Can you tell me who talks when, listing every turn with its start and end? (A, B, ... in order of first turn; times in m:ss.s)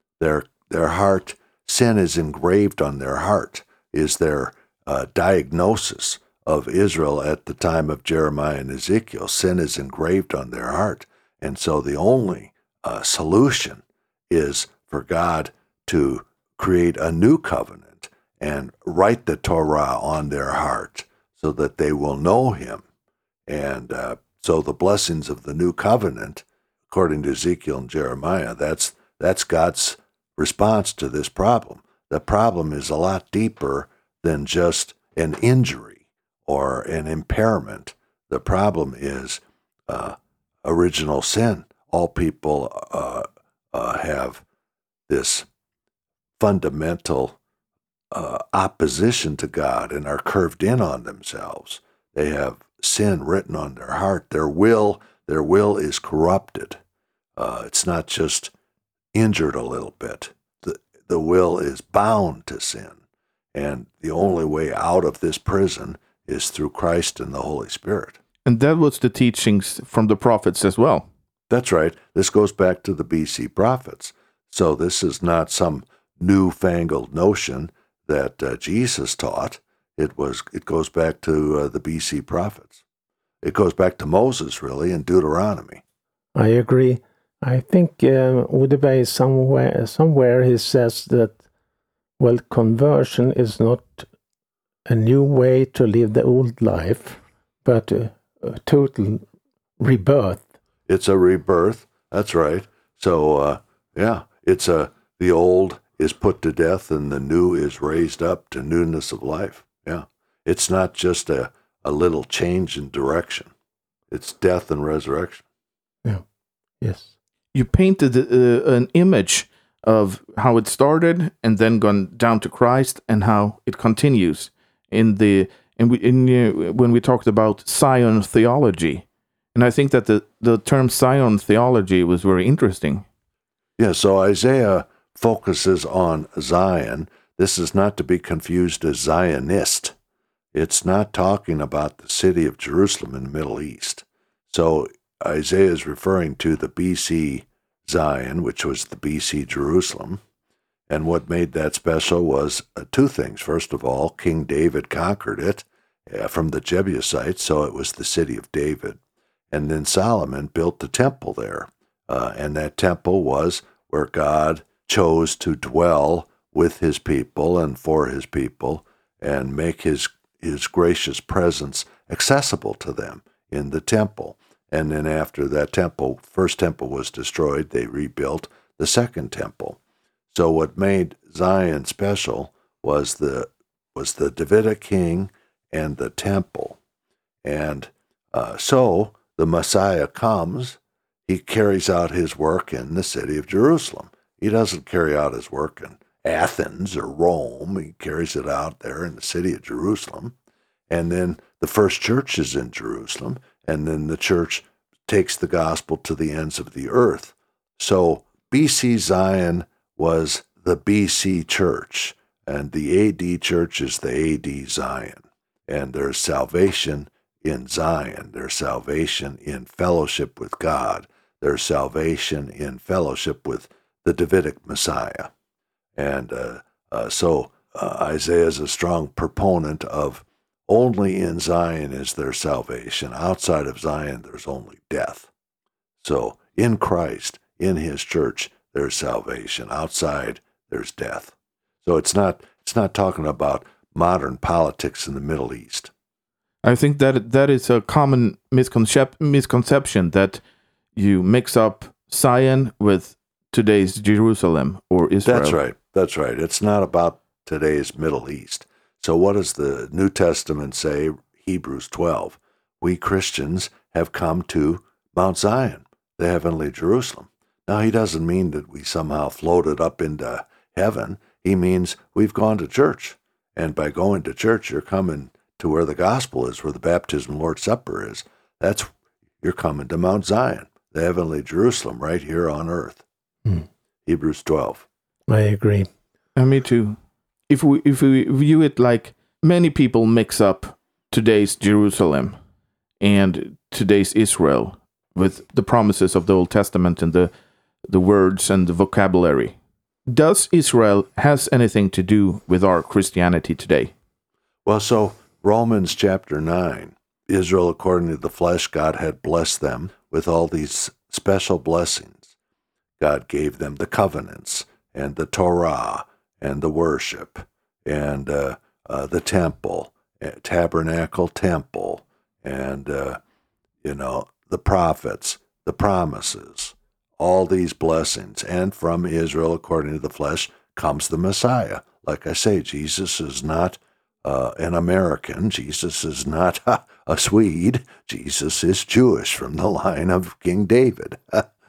0:00.2-0:22.8 A
0:23.5-0:44.4 A
0:45.1-0:45.5 A
0:46.4-0:47.4 A
0:48.1-0:56.8 A
0:57.4-0:58.5 A
0:59.1-1:03.0 A
1:03.5-1:08.2 A
1:08.4-1:11.1 B
1:11.5-1:22.8 A
1:23.4-1:25.8 A
1:26.4-1:31.4 C
1:32.2-1:34.1 C
1:34.9-1:39.2 C
1:39.8-1:40.5 C
1:40.9-1:53.5 A
1:54.1-1:55.4 A
1:56.8-1:57.1 C
1:57.5-2:13.0 B
2:13.8-2:20.0 A
2:20.5-2:30.2 A
2:30.9-2:39.0 A
2:39.5-2:59.8 A
3:00.3-3:06.8 A
3:07.4-3:20.4 A
3:20.9-3:45.3 A
3:46.0-3:55.3 A
3:56.0-4:05.9 A
4:06.6-4:10.4 B
4:11.0-4:15.6 B
4:15.2-4:38.9 A
4:39.4-4:43.0 A
4:44.1-4:44.9 A
4:45.3-4:45.9 C
4:46.4-4:47.0 B
4:47.5-4:52.4 B
4:53.0-4:57.3 B
4:57.9-4:59.6 B
5:00.1-5:03.9 B
5:04.6-5:12.3 A
5:13.0-5:23.2 A
5:23.8-5:41.5 A